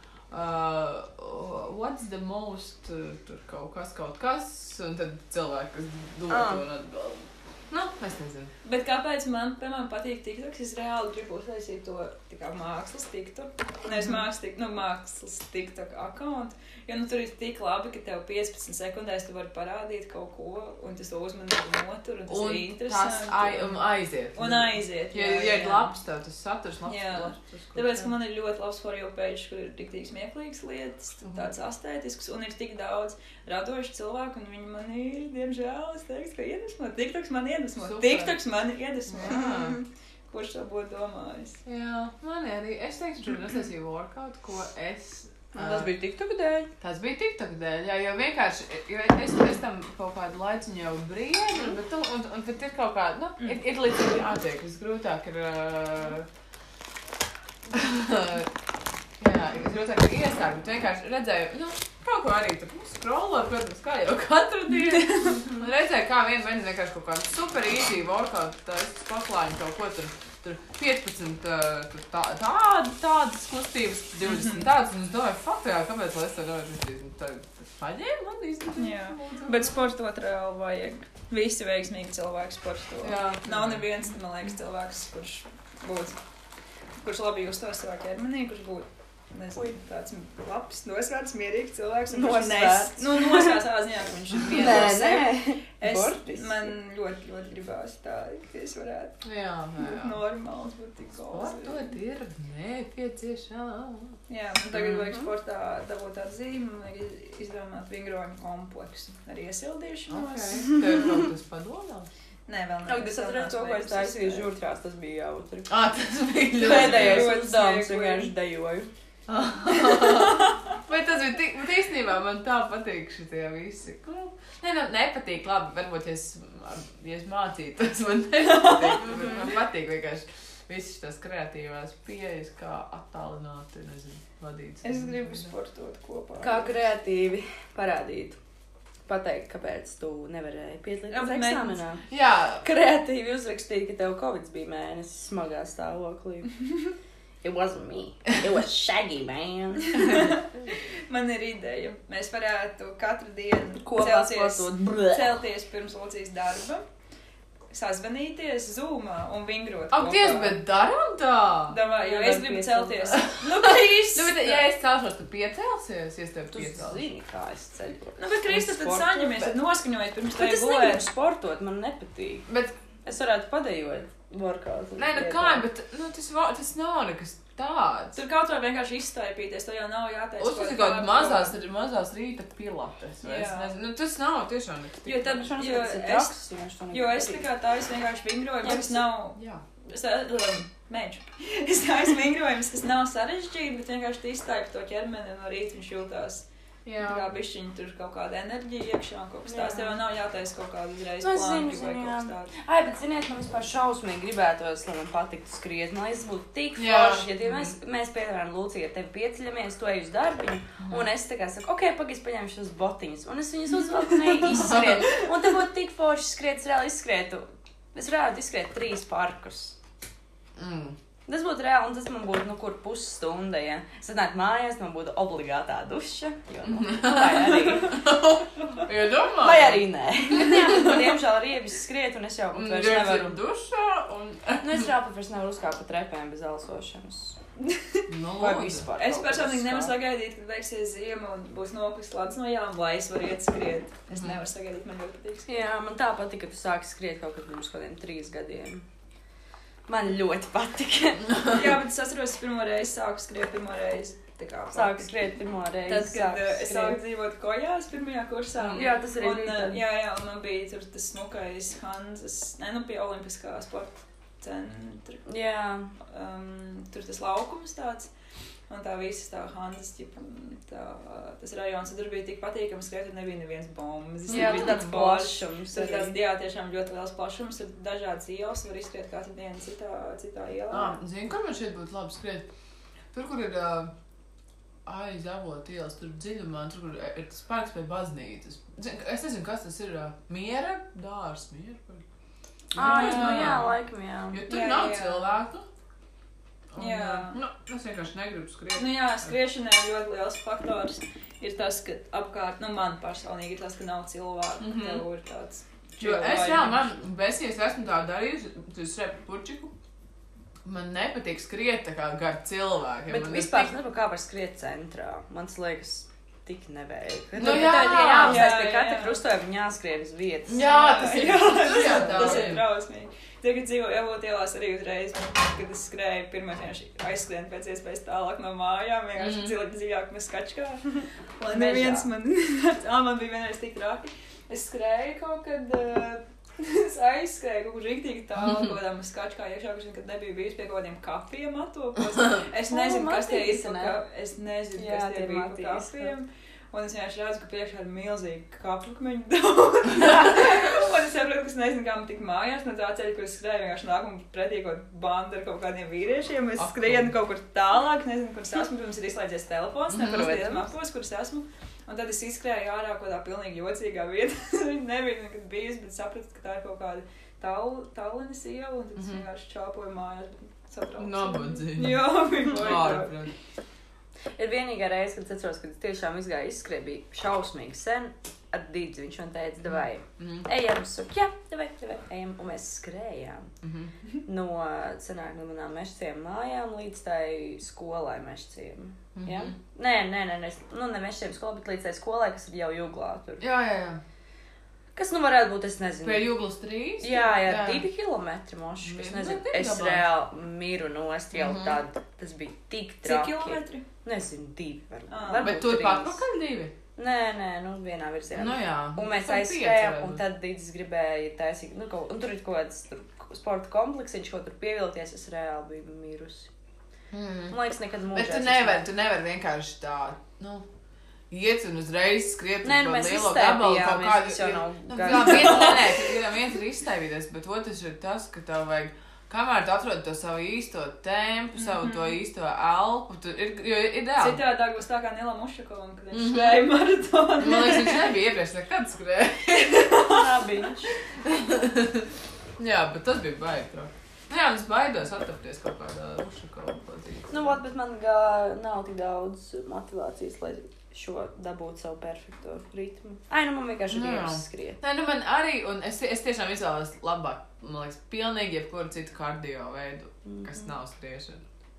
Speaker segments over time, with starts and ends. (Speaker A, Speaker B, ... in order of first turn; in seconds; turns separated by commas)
Speaker A: 0.3-8.5, Speaker B: 6.3-6.6, Speaker C: 8.6-23.8, Speaker A: 22.3-28.1, Speaker C: 24.4-25.9, Speaker C: 26.9-41.6, Speaker A: 31.2-31.5, Speaker A: 37.8-38.4, Speaker A: 39.1-39.8, Speaker A: 41.7-45.9, Speaker B: 45.5-46.7, Speaker A: 46.8-56.3, Speaker A: 57.7-58.5, Speaker A: 59.2-79.7, Speaker C: 74.3-74.7, Speaker C: 78.8-86.2, Speaker A: 83.0-83.9, Speaker C: 87.0-99.2, Speaker B: 92.1-93.6, Speaker B: 94.5-96.7, Speaker A: 94.5-94.9, Speaker A: 99.2-100.2, Speaker C: 99.8-101.9, Speaker A: 101.3-104.2, Speaker C: 104.3-111.0, Speaker B: 104.7-105.3, Speaker A: 110.1-112.1, Speaker C: 112.5-114.5, Speaker B: 112.9-115.7, Speaker A: 115.7-117.3, Speaker C: 116.6-118.3, Speaker B: 116.6-118.9, Speaker A: 119.3-135.5, Speaker C: 119.7-120.6, Speaker C: 128.6-129.0, Speaker B: 129.1-129.4, Speaker C: 134.8-136.7, Speaker B: 136.4-138.4, Speaker B: 139.1-142.0, Speaker C: 141.1-141.8, Speaker A: 142.1-142.7, Speaker B: 142.6-146.6, Speaker B: 147.4-150.3, Speaker C: 149.9-150.5, Speaker C: 151.1-156.8, Speaker B: 153.8-155.3, Speaker C: 157.7-160.6, Speaker A: 159.9-161.8, Speaker C: 161.7-164.7, Speaker B: 161.9-163.2, Speaker A: 163.1-167.0, Speaker B: 166.5-169.6, Speaker C: 168.2-171.1, Speaker B: 170.4-172.5, Speaker A: 172.5-172.8, Speaker B: 173.1-175.7, Speaker A: 175.0-178.2, Speaker C: 178.2-181.5, Speaker A: 180.4-185.5, Speaker C: 183.2-183.7, Speaker C: 185.1-186.4, Speaker B: 185.2-187.5, Speaker C: 186.9-196.4, Speaker B: 188.6-189.0, Speaker A: 189.4-189.6, Speaker A: 196.8-197.3, Speaker C: 197.0-202.5, Speaker B: 199.5-200.0, Speaker B: 201.2-219.8, Speaker A: 206.8-207.7, Speaker A: 210.8-211.1, Speaker A: 214.5-215.1, Speaker A: 220.6-221.0, Speaker B: 221.3-228.0, Speaker A: 226.7-231.1, Speaker B: 229.4-233.4, Speaker A: 232.5-234.9, Speaker B: 234.6-237.4, Speaker C: 237.7-238.1, Speaker A: 238.1-238.9, Speaker B: 238.4-239.9, Speaker C: 239.0-245.6, Speaker A: 244.1-244.4, Speaker B: 245.5-248.8, Speaker B: 249.9-251.6, Speaker C: 251.5-255.1, Speaker B: 254.7-257.0, Speaker C: 255.9-265.3, Speaker B: 258.7-259.8, Speaker B: 265.3-265.9, Speaker C: 266.0-268.1, Speaker C: 268.7-281.0, Speaker B: 274.3-276.2, Speaker A: 274.3-274.8, Speaker A: 280.7-282.5, Speaker A: 283.1-283.9, Speaker A: 284.9-292.0, Speaker A: 292.7-293.7, Speaker B: 292.8-294.4, Speaker C: 292.8-293.6, Speaker A: 294.3-295.7, Speaker C: 294.5-295.3, Speaker A: 296.7-299.3, Speaker C: 296.8-297.4, Speaker C: 298.8-306.9, Speaker A: 304.6-305.1, Speaker A: 306.0-309.7, Speaker A: 310.6-313.8, Speaker B: 313.1-320.7, Speaker A: 317.4-318.5, Speaker C: 317.4-319.2, Speaker A: 320.5-322.7, Speaker C: 320.5-373.3, Speaker B: 321.9-322.5, Speaker A: 329.2-329.6, Speaker B: 331.5-332.1, Speaker B: 342.7-344.0, Speaker B: 344.8-346.1, Speaker A: 356.6-357.1, Speaker A: 359.9-360.4, Speaker B: 360.0-360.7, Speaker A: 369.0-369.2, Speaker A: 371.0-373.3, Speaker B: 374.4-383.5, Speaker A: 379.7-380.5, Speaker A: 383.6-383.9, Speaker B: 384.3-393.4, Speaker A: 389.1-389.6, Speaker A: 393.4-394.0, Speaker B: 394.9-396.4, Speaker A: 396.0-397.9, Speaker B: 397.0-406.2, Speaker A: 398.8-400.1, Speaker A: 401.3-401.8, Speaker C: 403.0-403.9, Speaker C: 405.1-405.6, Speaker A: 405.4-406.7, Speaker B: 407.0-416.5, Speaker A: 408.4-410.2, Speaker A: 417.1-417.6, Speaker B: 417.5-418.9, Speaker A: 418.1-420.6, Speaker A: 421.3-434.4, Speaker B: 422.6-425.9, Speaker C: 431.6-432.2, Speaker C: 434.2-438.2, Speaker A: 436.1-436.7, Speaker A: 437.4-440.0, Speaker C: 439.6-440.4, Speaker B: 440.0-440.9, Speaker A: 441.2-447.5, Speaker B: 447.3-454.8, Speaker A: 453.9-461.4, Speaker B: 460.2-460.7